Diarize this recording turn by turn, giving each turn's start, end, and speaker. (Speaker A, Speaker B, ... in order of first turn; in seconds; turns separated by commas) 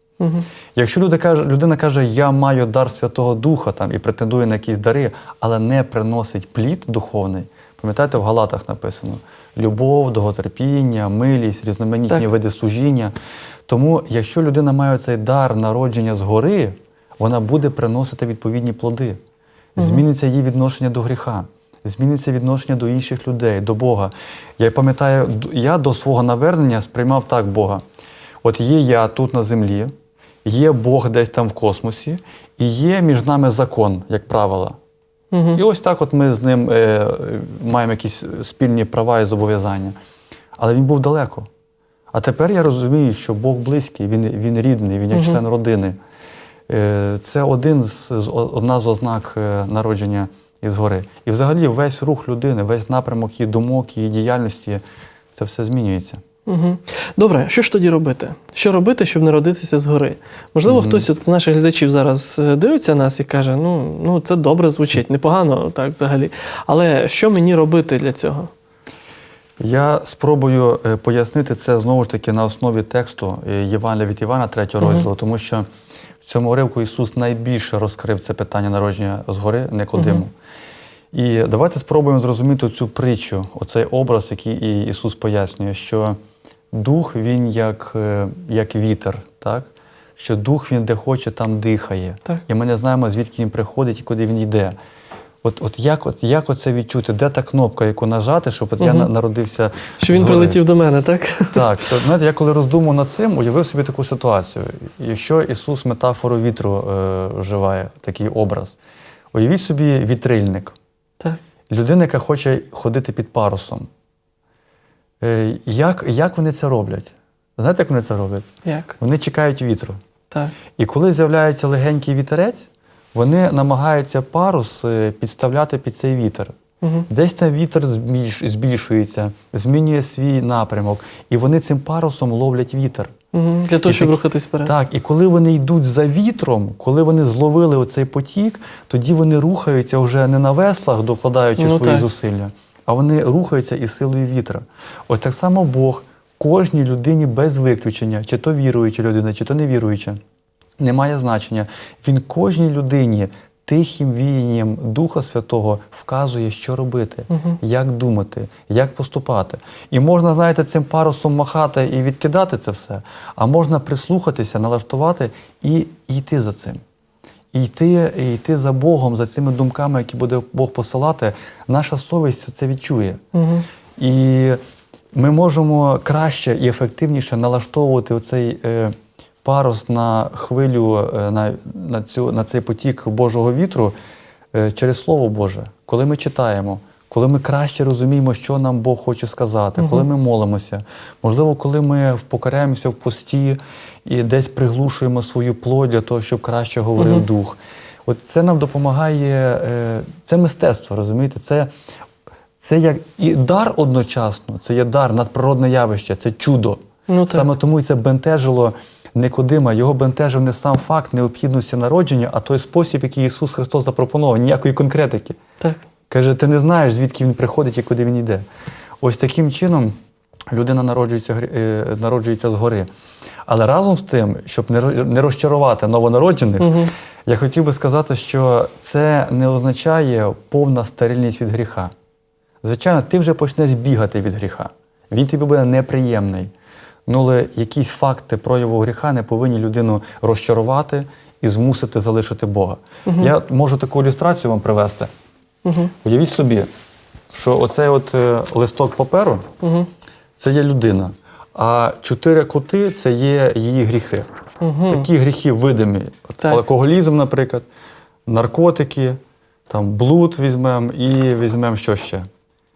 Speaker A: 0.2-0.5, Speaker B: 0.8-13.1, Speaker B: 13.7-19.2, Speaker A: 19.8-20.1, Speaker B: 19.8-27.8, Speaker B: 28.4-29.9, Speaker B: 30.4-34.8, Speaker A: 35.3-35.6, Speaker B: 35.5-40.0, Speaker B: 40.6-41.5, Speaker B: 42.1-46.0, Speaker A: 45.1-45.4, Speaker B: 46.7-56.2, Speaker A: 56.5-68.5, Speaker B: 60.6-61.1, Speaker B: 69.6-75.7, Speaker A: 74.8-75.1, Speaker B: 76.2-80.3, Speaker A: 79.9-80.2, Speaker B: 81.1-86.2, Speaker B: 86.7-94.8, Speaker B: 95.4-100.6, Speaker A: 98.8-99.1, Speaker A: 100.0-102.0, Speaker B: 101.5-108.8, Speaker B: 109.3-110.8, Speaker B: 111.7-113.9, Speaker B: 115.2-118.5, Speaker A: 118.6-119.0, Speaker B: 119.0-120.0, Speaker A: 120.3-120.6, Speaker B: 120.7-126.5, Speaker A: 126.8-127.1, Speaker B: 127.1-133.1, Speaker A: 133.3-134.8, Speaker B: 133.8-150.2, Speaker A: 141.6-142.1, Speaker B: 150.8-166.8, Speaker B: 167.5-173.2, Speaker A: 173.3-173.7, Speaker B: 174.0-174.6, Speaker B: 175.1-183.9, Speaker B: 184.5-201.7, Speaker A: 189.8-190.1, Speaker A: 197.0-197.2, Speaker B: 202.6-215.4, Speaker A: 207.1-207.5, Speaker B: 216.1-218.4, Speaker B: 219.0-219.9, Speaker B: 220.5-222.9, Speaker B: 223.5-231.9, Speaker A: 226.6-226.9, Speaker B: 232.6-236.5, Speaker B: 237.1-245.1, Speaker A: 243.1-243.3, Speaker A: 245.7-245.9, Speaker B: 246.0-246.7, Speaker B: 247.3-249.5, Speaker A: 249.6-249.9, Speaker B: 250.4-254.3, Speaker A: 254.6-255.1, Speaker B: 254.9-257.7, Speaker B: 258.3-262.3